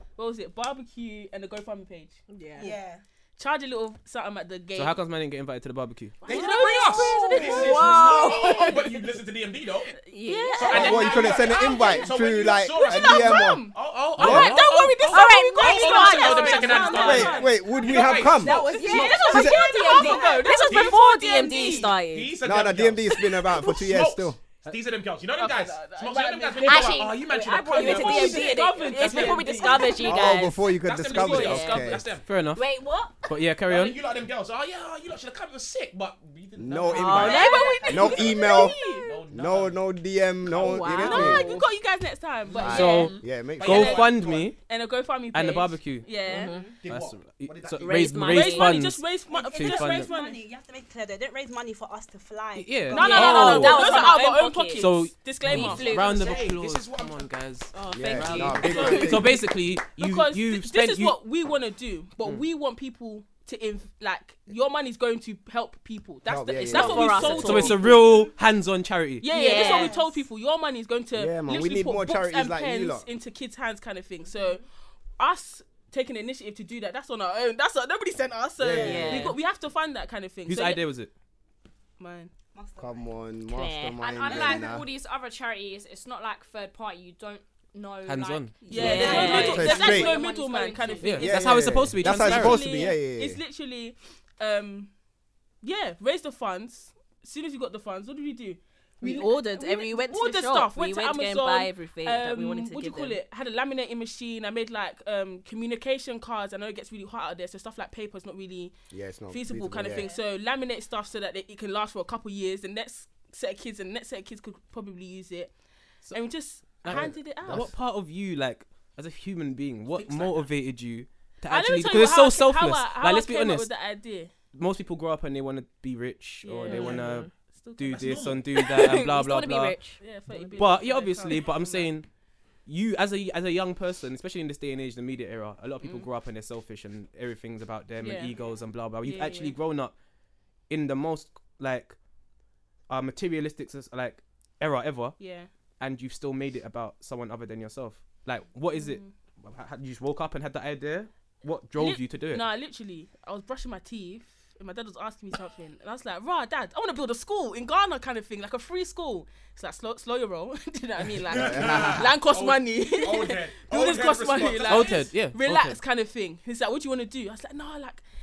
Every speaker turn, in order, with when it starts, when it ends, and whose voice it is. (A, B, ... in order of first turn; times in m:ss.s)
0:00.2-0:02.6 A
0:02.3-0:02.8 B
0:02.6-0:03.0 C
0:03.4-0:05.0 A
0:04.7-0:06.2 D
0:06.2-0:08.3 C
0:06.2-0:07.9 A
0:06.2-0:09.9 E
0:06.4-0:09.0 B
0:10.1-0:11.2 B
0:10.2-0:12.1 A
0:10.6-0:19.2 E
0:10.7-0:13.6 F
0:12.8-0:21.9 A
0:14.2-0:14.5 F
0:14.2-0:17.4 B
0:17.0-0:18.6 F
0:18.4-0:22.4 B
0:18.5-0:20.4 C
0:19.3-0:19.6 F
0:20.7-0:21.4 E
0:21.9-0:28.5 E
0:22.4-0:24.4 F
0:25.4-0:27.1 A
0:26.6-0:32.0 B
0:27.6-0:30.3 A
0:27.9-0:29.8 D
0:30.0-0:32.1 F
0:30.7-0:32.2 E
0:31.1-0:31.9 A
0:32.2-0:32.7 D
0:32.5-0:33.3 B
0:33.2-0:34.0 D
0:33.7-0:38.4 E
0:36.6-0:38.8 F
0:36.8-0:39.0 B
0:37.2-0:39.1 A
0:39.0-0:39.8 E
0:39.3-0:41.5 F
0:40.5-0:41.6 B
0:40.9-0:46.5 A
0:42.5-0:44.5 E
0:42.6-0:44.1 F
0:42.6-0:44.6 D
0:42.6-0:43.2 B
0:45.3-0:46.1 D
0:46.2-0:46.8 B
0:46.8-0:48.2 E
0:46.8-0:50.1 D
0:47.8-0:48.8 B
0:48.2-0:50.4 A
0:49.3-0:53.4 C
0:52.5-0:54.0 D
0:52.8-0:55.0 B
0:52.9-0:55.9 A
0:54.8-1:01.2 D
0:55.5-0:56.4 B
0:55.6-0:57.4 E
0:55.7-0:56.2 G
0:57.7-0:59.4 B
0:57.9-0:59.4 F
0:58.4-0:58.8 E
0:58.6-0:59.4 A
1:00.0-1:07.9 A
1:06.2-1:07.5 F
1:06.6-1:08.2 B
1:07.3-1:09.3 D
1:09.2-1:14.6 A
1:09.2-1:10.1 B
1:09.6-1:10.0 C
1:11.1-1:13.1 F
1:15.2-1:20.9 A
1:18.6-1:19.3 F
1:18.7-1:19.4 B
1:20.4-1:21.1 D
1:22.0-1:22.3 A
1:22.5-1:23.2 C
1:22.8-1:24.9 F
1:23.5-1:24.0 B
1:24.0-1:31.3 G
1:28.0-1:29.4 D
1:28.6-1:30.0 B
1:28.6-1:29.4 C
1:28.7-1:31.4 A
1:29.4-1:30.2 F
1:31.0-1:32.8 D
1:31.2-1:33.4 F
1:32.0-1:34.9 A
1:35.6-1:48.7 A
1:39.0-1:43.2 B
1:48.9-1:50.1 F
1:49.3-1:55.5 A
1:56.1-1:57.7 A
1:56.8-2:03.7 D
1:56.9-1:57.7 F
1:59.9-2:00.5 E
2:01.5-2:04.3 A
2:04.5-2:09.8 D
2:06.4-2:08.4 A
2:06.6-2:07.3 B
2:07.9-2:08.4 E
2:08.5-2:10.6 B
2:10.0-2:11.9 A
2:10.6-2:12.1 D
2:12.6-2:19.9 D
2:15.8-2:16.1 A
2:18.0-2:18.4 A
2:19.0-2:19.6 A
2:20.7-2:22.0 D
2:22.9-2:25.2 D
2:25.2-2:25.5 A
2:25.8-2:32.4 D
2:28.7-2:29.1 A
2:31.8-2:48.0 A
2:41.3-2:45.1 E
2:41.3-2:42.1 F
2:44.7-2:45.8 D